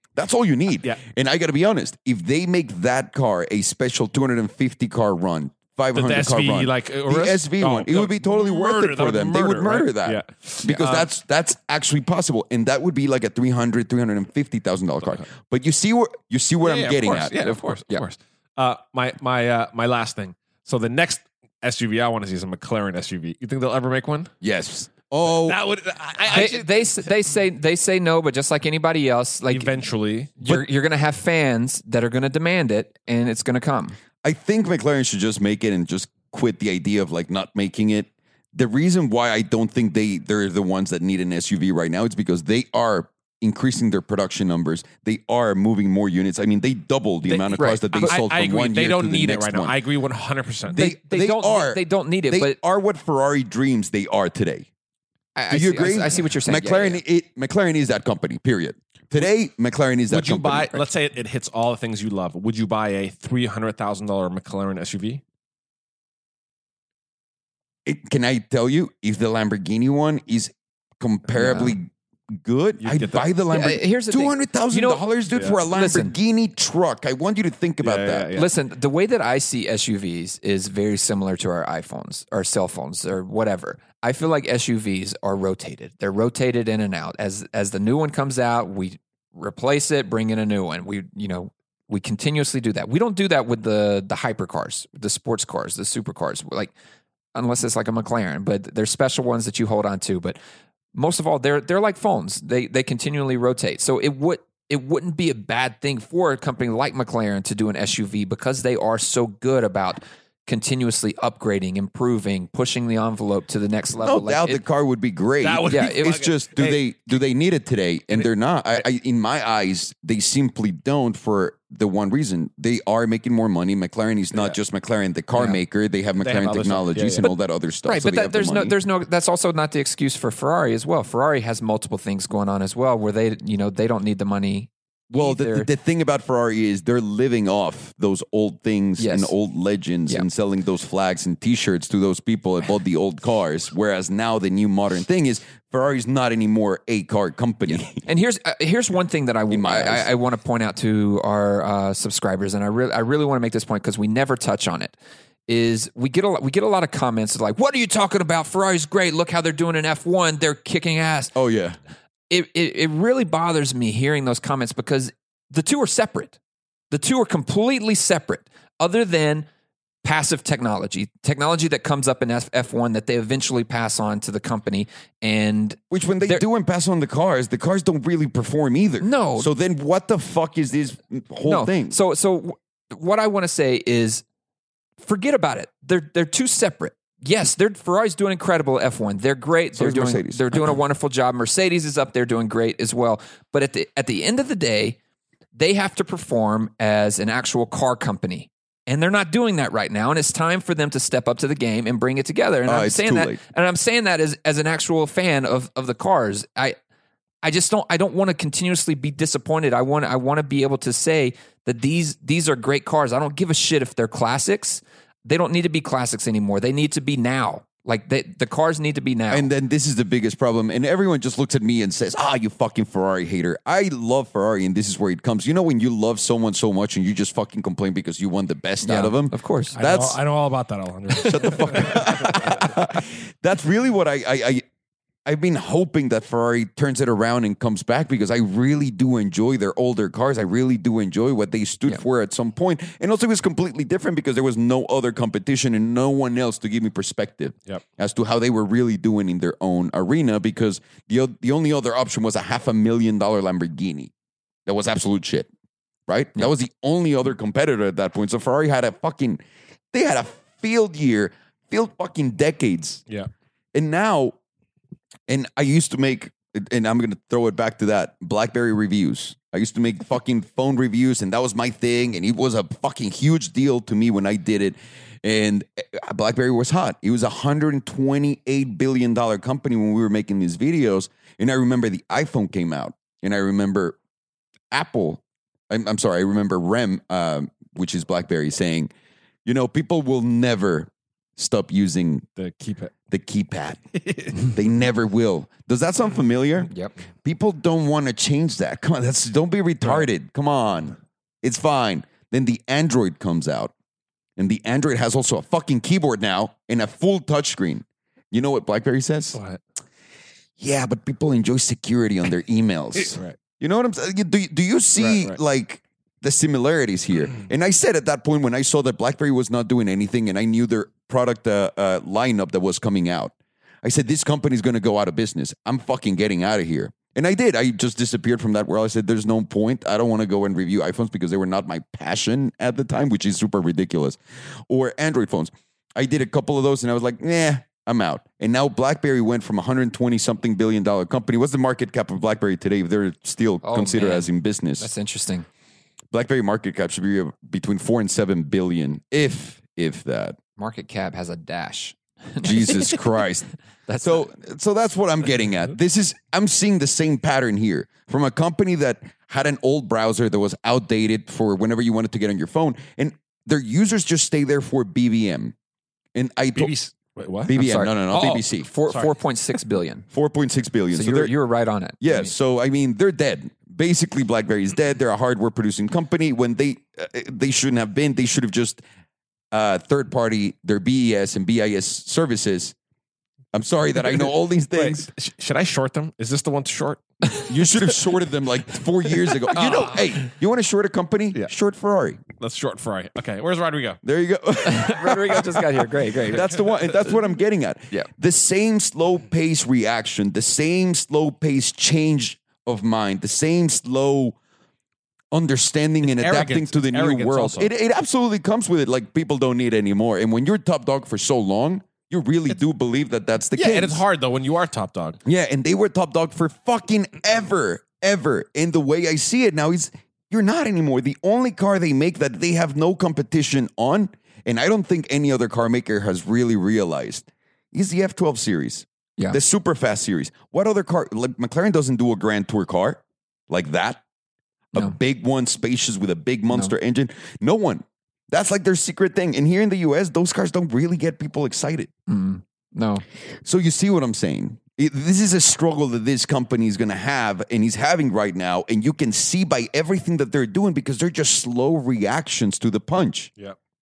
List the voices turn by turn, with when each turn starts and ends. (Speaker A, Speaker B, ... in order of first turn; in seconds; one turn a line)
Speaker A: 0.1-17.6
Speaker B: 5.9-11.1
Speaker B: 16.6-24.3
Speaker C: 17.4-18.0
Speaker A: 24.4-25.6
Speaker B: 25.2-27.1
Speaker C: 26.3-29.8
Speaker B: 29.5-30.3
Speaker C: 30.4-34.0
Speaker A: 34.2-49.8
Speaker B: 47.2-50.8
Speaker C: 47.6-48.1
Speaker A: 50.7-54.7
Speaker C: 50.7-52.6
Speaker C: 55.4-57.0
Speaker A: 55.5-60.7
Speaker B: 60.1-65.2
Speaker A: 67.8-78.3
Speaker C: 71.3-71.8
Speaker B: 72.8-73.3
Speaker C: 73.5-75.1
Speaker B: 75.3-75.6
Speaker C: 75.6-76.1
Speaker B: 77.8-78.5
Speaker C: 78.3-96.7
Speaker C: 97.3-100.4
Speaker C: 100.9-114.6
Speaker A: 114.0-128.8
Speaker B: 115.4-116.8
Speaker C: 115.7-116.3
Speaker C: 125.3-125.6
Speaker B: 126.2-127.3
Speaker C: 127.8-135.7
Speaker A: 135.1-148.0
Speaker C: 139.0-139.3
Speaker C: 147.9-154.9
Speaker A: 149.5-150.1
Speaker C: 155.5-161.3
Speaker A: 161.3-161.8
Speaker C: 162.3-166.4
Speaker C: 166.9-169.5
Speaker C: 170.0-176.4
Speaker A: 175.9-182.0
Speaker C: 179.0-179.5
Speaker C: 181.4-184.2
Speaker C: 185.0-195.0
Speaker A: 189.7-190.8
Speaker C: 195.5-206.8
Speaker A: 202.6-203.4
Speaker C: 207.4-219.5
Speaker A: 219.3-230.2
Speaker C: 228.8-229.8
Speaker B: 229.7-232.7
Speaker A: 231.1-234.6
Speaker A: 235.2-254.1
Speaker A: 254.7-255.5
Speaker A: 256.1-259.4
Speaker A: 259.9-263.0
Speaker A: 263.7-264.4
Speaker A: 265.3-284.0
Speaker A: 284.7-288.9
Speaker A: 289.4-292.2
Speaker B: 292.4-292.9
Speaker A: 293.1-296.7
Speaker B: 294.0-294.3
Speaker A: 297.2-303.7
Speaker A: 304.4-309.4
Speaker B: 309.3-309.6
Speaker A: 310.6-344.9
Speaker B: 313.0-313.4
Speaker B: 315.0-315.4
Speaker C: 343.6-345.5
Speaker A: 346.1-350.4
Speaker C: 350.6-353.1
Speaker A: 352.4-353.5
Speaker C: 353.9-354.3
Speaker A: 354.0-365.5
Speaker A: 366.1-366.7
Speaker B: 366.5-367.5
Speaker A: 367.4-368.7
Speaker C: 367.5-370.1
Speaker B: 368.9-369.1
Speaker A: 370.1-371.3
Speaker C: 370.9-372.3
Speaker A: 372.0-378.8
Speaker A: 379.5-382.7
Speaker A: 383.5-385.1
Speaker B: 384.7-387.5
Speaker A: 387.4-392.2
Speaker B: 389.5-390.0
Speaker C: 389.6-390.0
Speaker B: 392.4-394.0
Speaker A: 394.0-404.4
Speaker C: 394.6-396.6
Speaker A: 405.3-414.0
Speaker B: 406.0-407.7
Speaker B: 413.5-415.2
Speaker A: 415.2-434.0
Speaker A: 434.7-441.9
Speaker C: 442.1-443.0
Speaker A: 443.4-453.3